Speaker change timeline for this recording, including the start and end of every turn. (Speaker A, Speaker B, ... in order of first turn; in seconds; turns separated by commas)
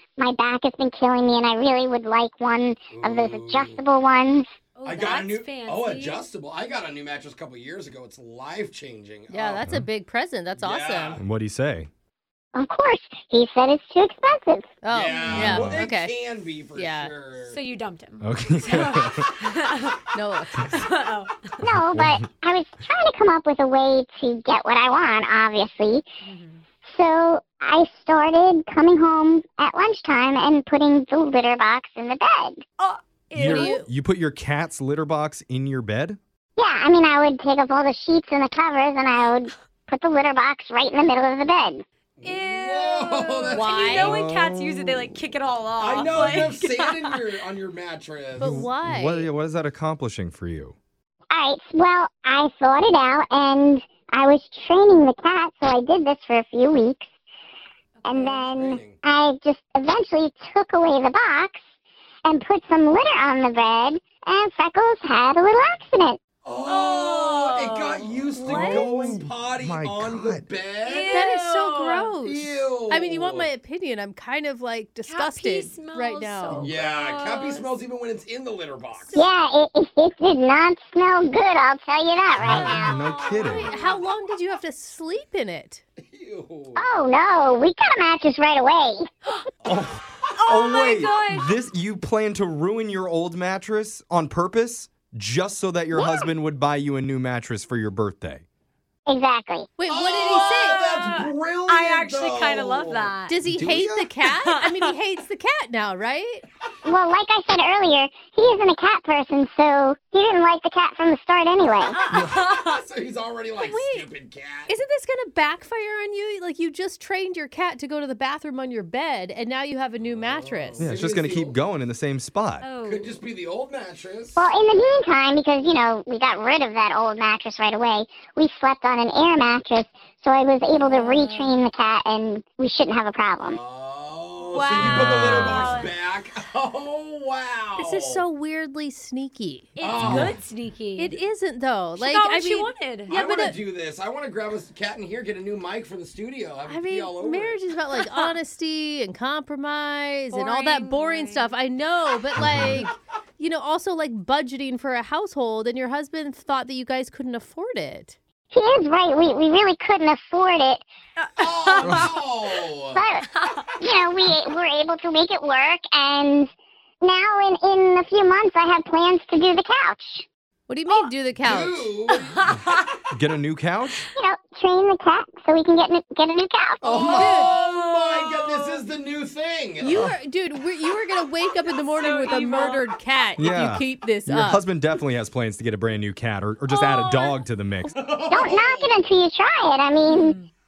Speaker A: 0.2-4.5, Speaker B: 2.9-3.8, Speaker C: 4.8-6.2, Speaker B: 4.8-9.7, Speaker D: 9.3-11.2, Speaker B: 10.6-11.2, Speaker E: 11.2-11.9, Speaker A: 12.5-14.7, Speaker D: 14.8-16.2, Speaker B: 14.9-17.7, Speaker C: 15.2-15.5, Speaker E: 15.3-15.8, Speaker D: 16.7-17.3, Speaker C: 17.4-20.0, Speaker E: 18.2-19.4, Speaker D: 20.1-20.8, Speaker C: 20.7-21.4, Speaker A: 21.6-26.1, Speaker E: 21.7-22.2, Speaker C: 26.2-26.6, Speaker A: 26.9-32.6, Speaker C: 32.8-33.8, Speaker E: 33.3-36.2, Speaker D: 33.4-33.8, Speaker A: 36.6-41.8, Speaker B: 42.2-44.1, Speaker C: 42.2-47.2, Speaker D: 43.5-44.2, Speaker E: 43.7-45.2, Speaker B: 45.8-48.7, Speaker E: 46.1-46.6, Speaker D: 48.4-49.3, Speaker E: 48.4-50.7, Speaker A: 51.3-57.1, Speaker C: 58.0-58.5, Speaker A: 58.0-61.6, Speaker B: 58.5-59.0, Speaker A: 62.2-66.2, Speaker B: 66.4-71.2, Speaker C: 66.6-68.8, Speaker D: 68.4-69.1, Speaker E: 68.5-70.4, Speaker C: 70.8-72.1, Speaker D: 71.0-76.7, Speaker B: 72.2-73.5, Speaker C: 75.1-77.8, Speaker B: 76.6-79.2, Speaker D: 79.0-79.3, Speaker A: 79.1-83.0, Speaker E: 82.4-83.7, Speaker C: 82.5-84.1, Speaker D: 83.4-85.8, Speaker B: 86.0-86.8, Speaker A: 86.8-89.1, Speaker E: 89.6-98.4, Speaker C: 90.3-91.6, Speaker A: 95.9-96.3, Speaker A: 99.1-99.7, Speaker D: 99.8-100.8, Speaker B: 99.9-103.2, Speaker C: 100.0-103.3, Speaker D: 103.3-106.4, Speaker E: 103.5-104.1, Speaker C: 104.3-104.9, Speaker A: 106.8-112.0, Speaker C: 111.9-112.8, Speaker B: 112.1-114.7, Speaker D: 113.6-114.1, Speaker D: 114.7-120.9, Speaker B: 120.1-121.6, Speaker E: 120.8-122.7, Speaker C: 122.6-123.2, Speaker B: 122.8-124.5, Speaker A: 124.3-133.6, Speaker C: 130.8-131.6, Speaker B: 133.4-138.2, Speaker C: 134.5-136.0, Speaker E: 134.8-135.7, Speaker D: 137.8-139.7, Speaker C: 139.8-141.2, Speaker B: 139.8-140.4, Speaker E: 140.0-140.3, Speaker D: 140.9-143.6, Speaker C: 142.0-143.2, Speaker B: 143.1-147.6, Speaker D: 146.7-158.2, Speaker C: 150.3-151.5, Speaker E: 152.4-152.9, Speaker A: 158.5-160.8, Speaker C: 161.2-162.1, Speaker B: 161.4-163.0, Speaker A: 162.9-163.3, Speaker C: 163.2-163.6, Speaker A: 163.8-166.5, Speaker A: 167.0-170.2, Speaker D: 170.7-171.9, Speaker B: 171.4-172.5, Speaker C: 172.1-172.8, Speaker E: 173.1-174.1, Speaker A: 174.2-177.1, Speaker B: 176.8-180.1, Speaker C: 177.0-178.8, Speaker D: 177.1-177.6, Speaker D: 179.8-184.7, Speaker C: 181.6-182.9, Speaker E: 183.4-187.9, Speaker C: 186.7-187.3, Speaker B: 187.9-188.9, Speaker A: 188.3-190.4, Speaker C: 190.1-190.5